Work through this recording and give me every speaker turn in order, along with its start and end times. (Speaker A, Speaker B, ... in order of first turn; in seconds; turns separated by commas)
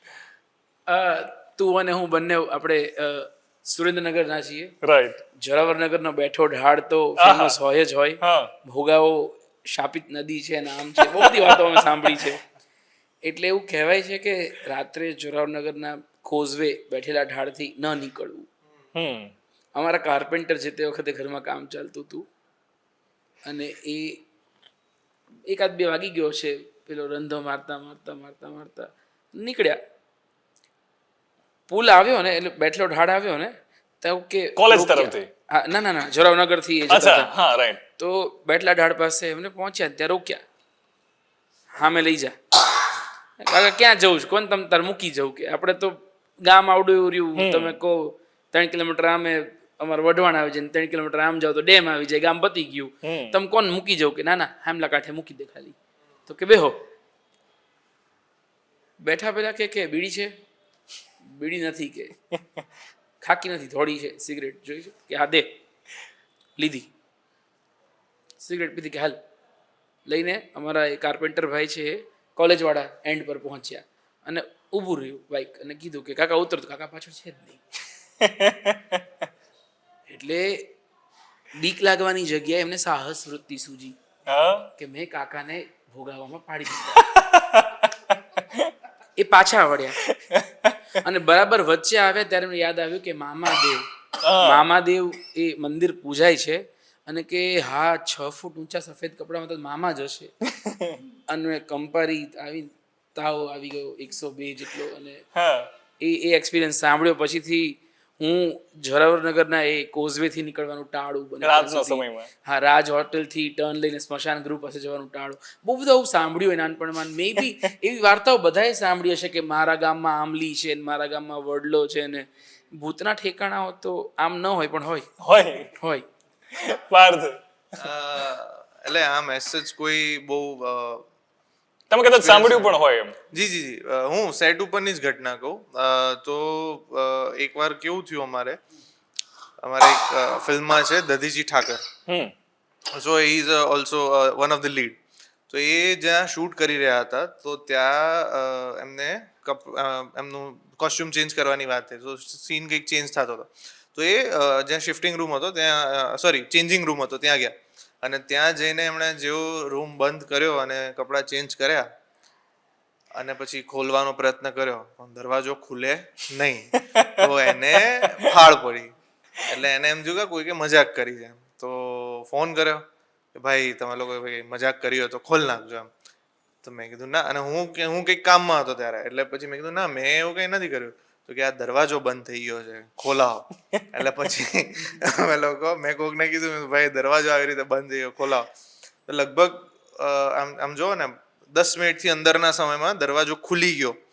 Speaker A: 0.9-4.8, Speaker B: 4.8-5.2, Speaker A: 5.4-12.4, Speaker B: 7.2-7.6, Speaker B: 8.2-8.5, Speaker B: 11.0-11.9, Speaker A: 13.2-18.5, Speaker B: 18.9-19.3, Speaker A: 19.8-22.2, Speaker A: 23.4-24.2, Speaker A: 25.5-29.8, Speaker A: 31.7-37.3, Speaker B: 34.6-35.3, Speaker B: 36.9-37.8, Speaker A: 38.0-40.4, Speaker A: 41.8-42.4, Speaker A: 43.4-55.8, Speaker B: 47.4-47.8, Speaker B: 53.0-53.4, Speaker A: 56.3-56.7, Speaker A: 59.0-60.3, Speaker A: 61.4-62.1, Speaker A: 63.2-65.5, Speaker A: 66.6-66.9, Speaker A: 68.4-69.2, Speaker A: 70.1-77.6, Speaker B: 78.2-79.0, Speaker A: 80.1-80.7, Speaker A: 81.6-84.0, Speaker B: 84.3-84.7, Speaker A: 84.8-87.1, Speaker B: 87.0-88.7, Speaker A: 89.2-90.0, Speaker B: 90.1-90.8, Speaker A: 91.0-93.8, Speaker B: 94.2-94.7, Speaker A: 94.4-100.3, Speaker B: 100.6-101.0, Speaker A: 101.3-105.2, Speaker B: 105.3-105.7, Speaker A: 106.0-125.1, Speaker B: 111.4-112.3, Speaker B: 125.2-125.7, Speaker A: 125.8-126.1, Speaker B: 126.5-127.4, Speaker C: 127.8-131.1, Speaker B: 131.9-133.2, Speaker C: 132.0-132.8, Speaker C: 133.3-138.6, Speaker C: 139.6-141.8, Speaker B: 142.1-142.3, Speaker C: 142.9-161.9, Speaker C: 163.2-175.9, Speaker B: 166.9-167.2, Speaker C: 176.6-188.5, Speaker C: 189.1-194.0